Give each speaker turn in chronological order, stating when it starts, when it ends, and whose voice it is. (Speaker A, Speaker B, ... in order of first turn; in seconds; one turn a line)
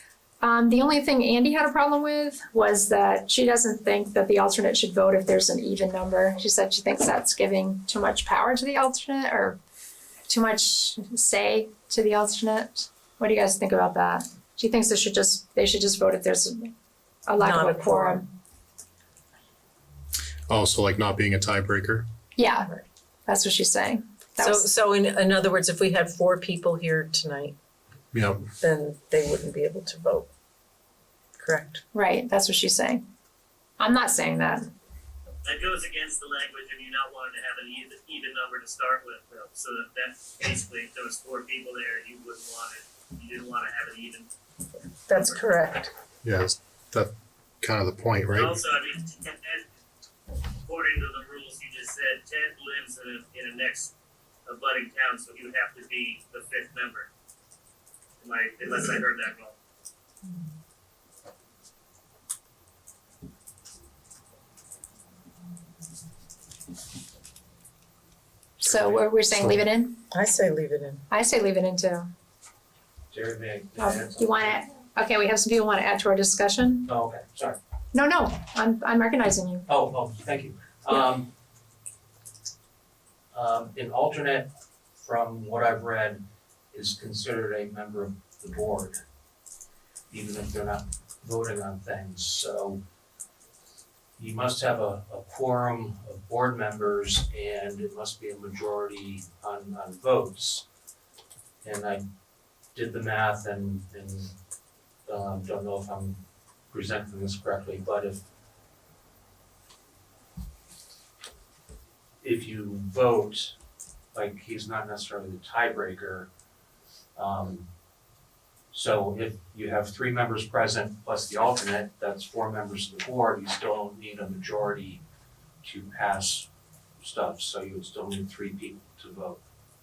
Speaker A: 0.4-9.6
Speaker A: 10.3-16.7
Speaker A: 17.2-18.3
Speaker B: 17.4-18.2
Speaker C: 20.5-22.1
Speaker A: 22.4-24.6
Speaker B: 24.4-27.6
Speaker C: 28.1-28.5
Speaker B: 28.6-30.3
Speaker B: 31.4-31.8
Speaker A: 31.9-33.1
Speaker A: 33.8-34.7
Speaker D: 35.4-44.3
Speaker B: 45.1-45.9
Speaker D: 45.1-45.4
Speaker C: 46.2-48.6
Speaker D: 48.3-49.6
Speaker D: 50.6-53.9
Speaker D: 54.5-57.1
Speaker D: 58.2-59.5
Speaker E: 68.6-69.0
Speaker A: 68.6-70.0
Speaker C: 69.3-69.6
Speaker B: 70.1-71.0
Speaker A: 71.1-72.1
Speaker E: 73.1-74.6
Speaker A: 73.8-76.9
Speaker E: 76.9-77.6
Speaker A: 77.9-79.7
Speaker E: 79.7-81.3
Speaker E: 83.3-89.0
Speaker E: 90.1-92.8
Speaker E: 94.2-100.6
Speaker E: 101.6-102.0
Speaker E: 102.7-104.3
Speaker E: 105.0-106.2
Speaker E: 106.7-108.2
Speaker E: 112.2-113.5
Speaker E: 114.1-116.3
Speaker E: 117.2-117.7
Speaker E: 118.7-125.0
Speaker E: 125.6-126.5
Speaker E: 127.0-129.4